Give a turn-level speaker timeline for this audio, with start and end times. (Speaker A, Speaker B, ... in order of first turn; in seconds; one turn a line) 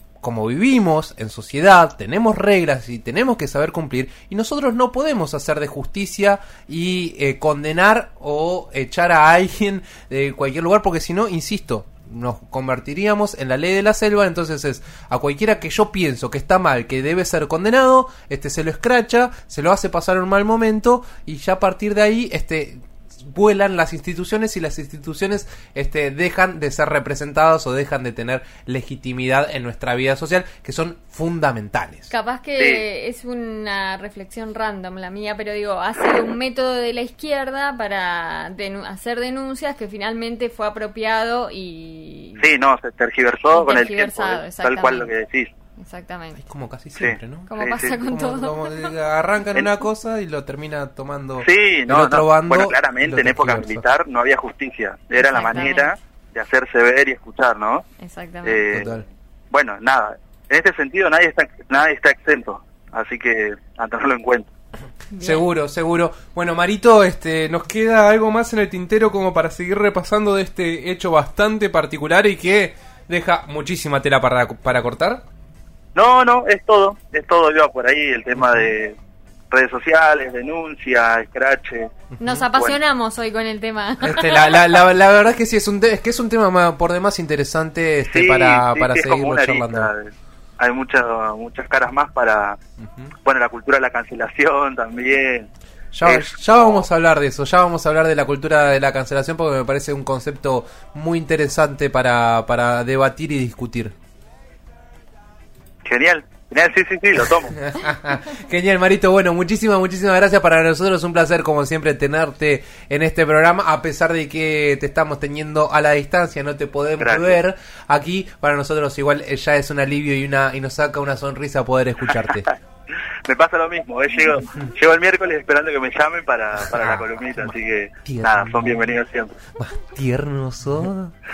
Speaker A: 0.2-32.1
Speaker B: 32.1-42.5
Speaker C: 42.4-45.5
Speaker B: 43.5-45.1
Speaker B: 45.8-46.4
Speaker A: 46.4-53.8
Speaker C: 47.0-48.0
Speaker B: 47.5-48.9
Speaker C: 51.4-57.8
Speaker B: 55.1-55.9
Speaker B: 58.0-58.6
Speaker C: 58.4-64.5
Speaker A: 58.7-59.0
Speaker B: 65.1-65.5
Speaker A: 65.2-75.2
Speaker C: 75.9-79.0
Speaker C: 79.5-81.9
Speaker A: 82.1-82.4
Speaker B: 82.2-84.6
Speaker A: 84.0-89.9
Speaker C: 88.0-92.6
Speaker A: 92.8-93.1
Speaker C: 93.2-95.5
Speaker A: 95.9-103.9
Speaker C: 96.0-96.9
Speaker C: 105.8-107.5
Speaker A: 107.6-122.5
Speaker C: 117.0-117.4
Speaker C: 122.0-122.5
Speaker C: 123.2-129.4
Speaker A: 126.7-127.5
Speaker A: 128.0-128.7
Speaker A: 129.6-131.1